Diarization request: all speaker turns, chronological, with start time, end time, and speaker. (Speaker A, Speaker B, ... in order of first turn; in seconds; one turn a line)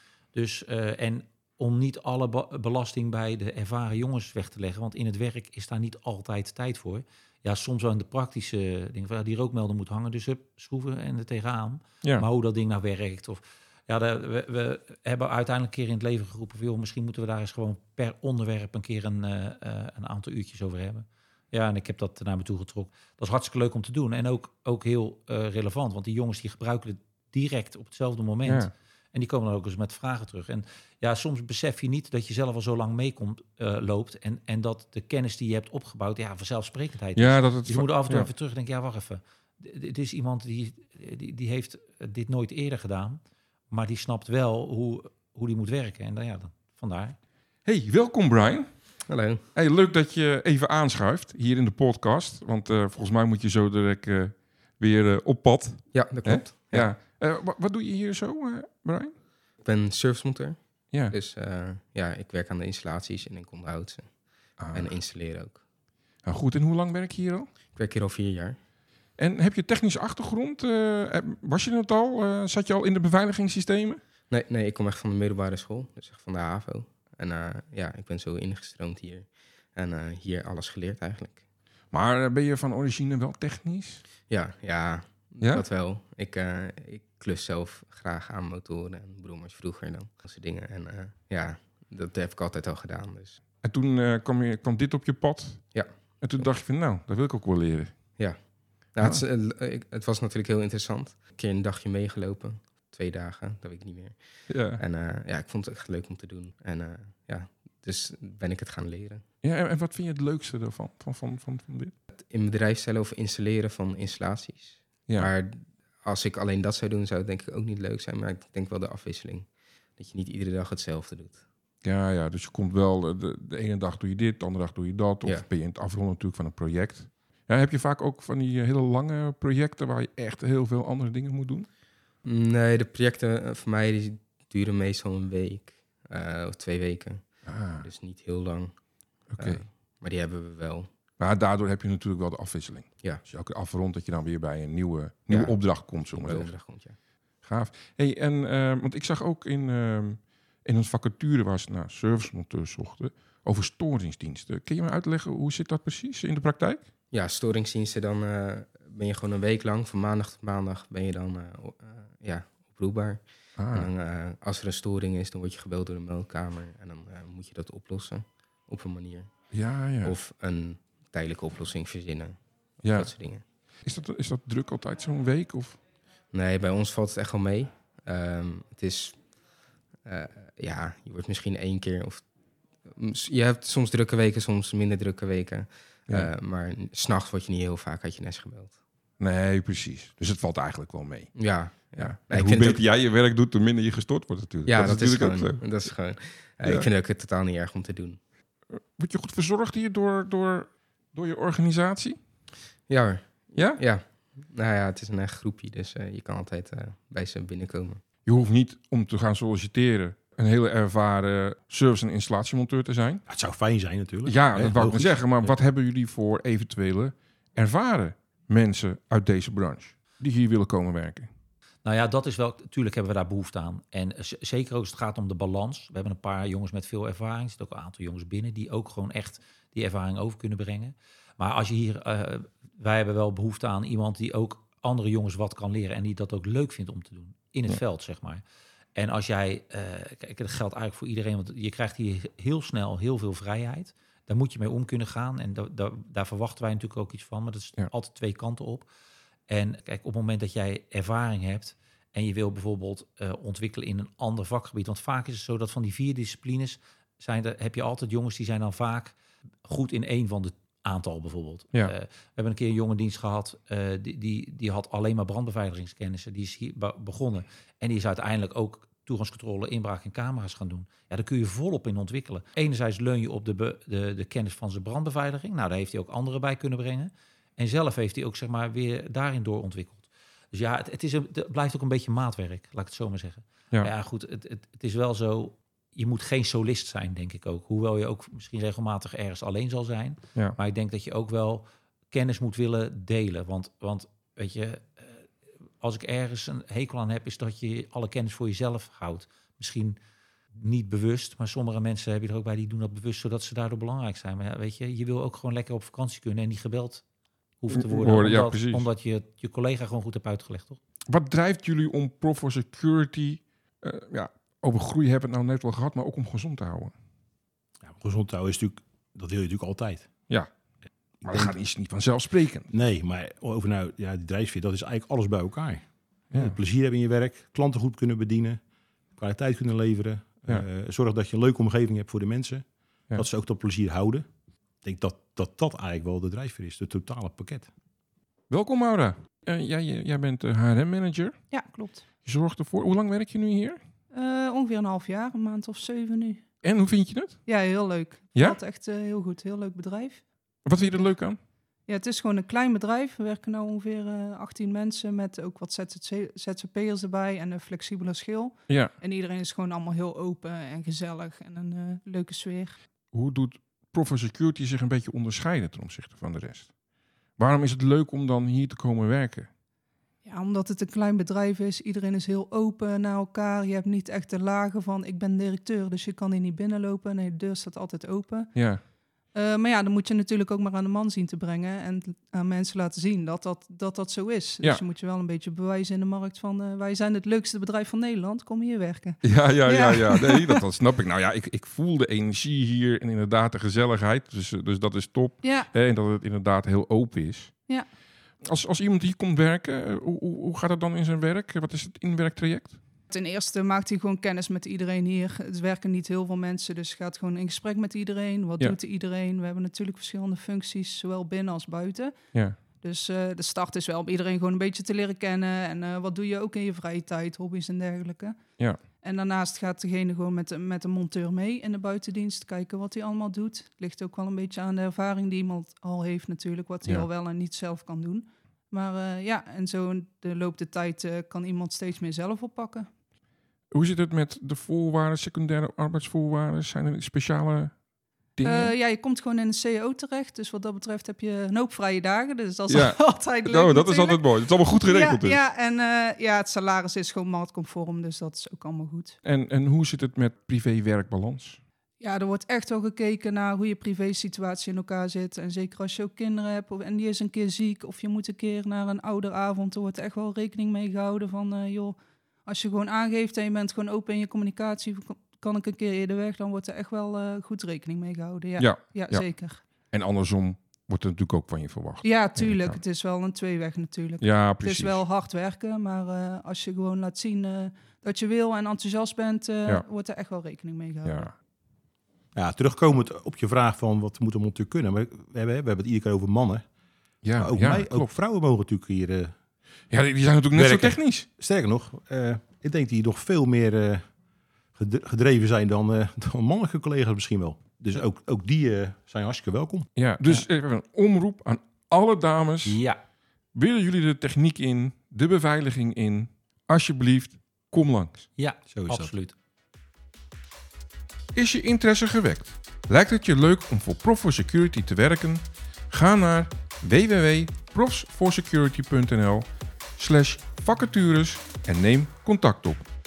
Speaker A: 0.3-47.2
Speaker B: 28.4-28.7
Speaker B: 37.2-38.3
Speaker B: 47.6-59.1
Speaker C: 49.0-49.4
Speaker C: 55.9-56.9
Speaker C: 59.6-65.6
Speaker B: 64.6-65.0
Speaker B: 66.2-67.5
Speaker C: 67.7-68.6
Speaker B: 69.2-74.0
Speaker C: 74.3-81.4
Speaker B: 81.9-84.0
Speaker C: 84.3-93.4
Speaker B: 93.6-97.9
Speaker C: 95.7-96.5
Speaker C: 98.9-109.2
Speaker B: 104.5-104.8
Speaker B: 109.4-111.9
Speaker C: 112.1-121.4
Speaker B: 121.8-131.7
Speaker C: 132.2-138.8
Speaker B: 137.4-137.9
Speaker B: 139.3-139.6
Speaker C: 139.4-140.9
Speaker B: 141.2-146.6
Speaker C: 145.3-147.0
Speaker B: 147.4-156.8
Speaker C: 157.1-169.5
Speaker B: 163.6-163.9
Speaker B: 169.5-170.2
Speaker C: 170.0-173.4
Speaker B: 172.8-173.1
Speaker B: 173.8-175.8
Speaker C: 176.3-179.3
Speaker C: 180.0-182.3
Speaker C: 182.8-188.8
Speaker B: 189.2-196.1
Speaker C: 191.4-192.8
Speaker C: 194.7-198.2
Speaker B: 198.8-202.2
Speaker C: 202.9-208.0
Speaker B: 203.6-203.8
Speaker B: 208.3-213.3
Speaker D: 213.3-215.6
Speaker B: 214.2-221.3
Speaker A: 221.8-238.4
Speaker A: 238.9-248.9
Speaker A: 249.5-295.3
Speaker A: 295.8-300.0
Speaker A: 300.6-307.0
Speaker A: 307.6-310.8
Speaker B: 307.7-308.9
Speaker B: 311.1-316.9
Speaker D: 317.8-320.1
Speaker D: 321.2-321.6
Speaker B: 321.2-322.7
Speaker D: 322.7-328.6
Speaker B: 326.3-326.6
Speaker D: 329.1-334.3
Speaker D: 334.8-337.7
Speaker B: 338.5-341.6
Speaker E: 341.5-342.1
Speaker B: 342.2-343.8
Speaker E: 344.1-346.5
Speaker B: 346.6-347.7
Speaker E: 347.5-351.1
Speaker B: 348.3-348.6
Speaker B: 350.6-351.4
Speaker E: 351.9-362.8
Speaker B: 363.1-366.8
Speaker B: 367.4-369.5
Speaker E: 370.2-378.5
Speaker B: 378.6-378.8
Speaker E: 379.3-390.6
Speaker B: 389.2-397.7
Speaker E: 395.4-395.7
Speaker B: 398.4-402.8
Speaker E: 403.1-418.4
Speaker E: 419.0-432.9
Speaker B: 433.7-437.8
Speaker B: 438.4-438.7
Speaker E: 438.4-449.2
Speaker B: 442.7-445.4
Speaker B: 449.2-451.6
Speaker E: 452.0-469.6
Speaker B: 468.6-472.8
Speaker E: 472.0-481.3
Speaker B: 474.2-475.0
Speaker B: 481.0-481.3
Speaker D: 482.4-486.7
Speaker B: 487.2-488.1
Speaker D: 487.3-489.4
Speaker B: 489.9-491.3
Speaker D: 490.5-494.1
Speaker D: 494.7-499.9
Speaker B: 500.0-502.8
Speaker A: 502.6-503.0
Speaker B: 503.5-508.3
Speaker A: 508.4-509.4
Speaker D: 508.7-509.1
Speaker B: 511.3-519.5
Speaker B: 520.0-522.9